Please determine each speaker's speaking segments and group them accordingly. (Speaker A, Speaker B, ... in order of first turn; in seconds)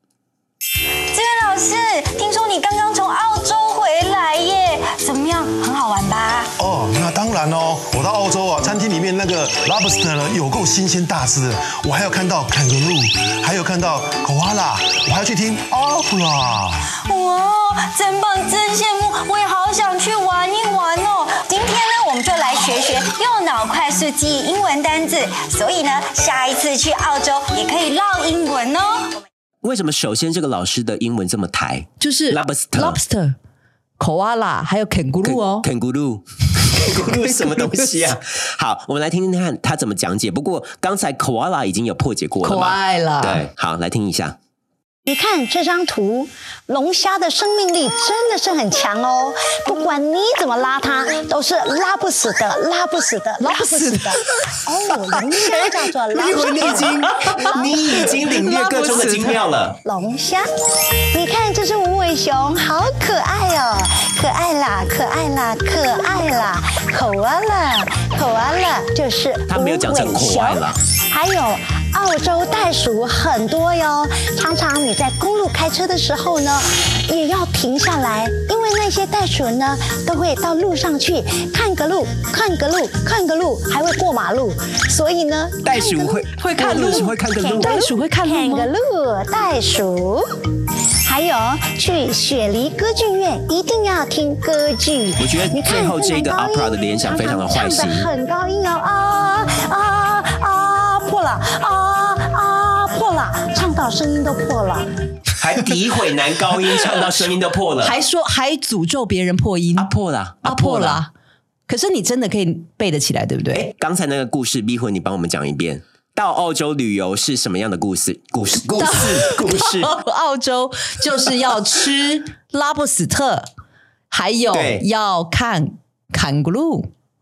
Speaker A: 1.1-6.5, 17.0-29.2
Speaker B: 6.6-16.8
Speaker C: 29.6-33.0, 35.2-44.4, 56.1-59.8, 69.5-70.8, 85.6-87.8, 95.2-98.1, 105.4-107.9, 109.8-111.0, 113.5-119.9, 124.5-124.8
Speaker D: 32.0-33.4, 34.0-35.7, 37.0-37.8, 42.4-43.4, 53.4-54.2, 56.8-57.4, 58.1-59.4, 86.4-88.7, 107.8-109.9, 110.4-111.1, 111.7-113.7, 118.8-123.5, 124.1-126.9
Speaker E: 45.0-58.1, 59.8-60.5, 61.1-90.2, 91.0-104.9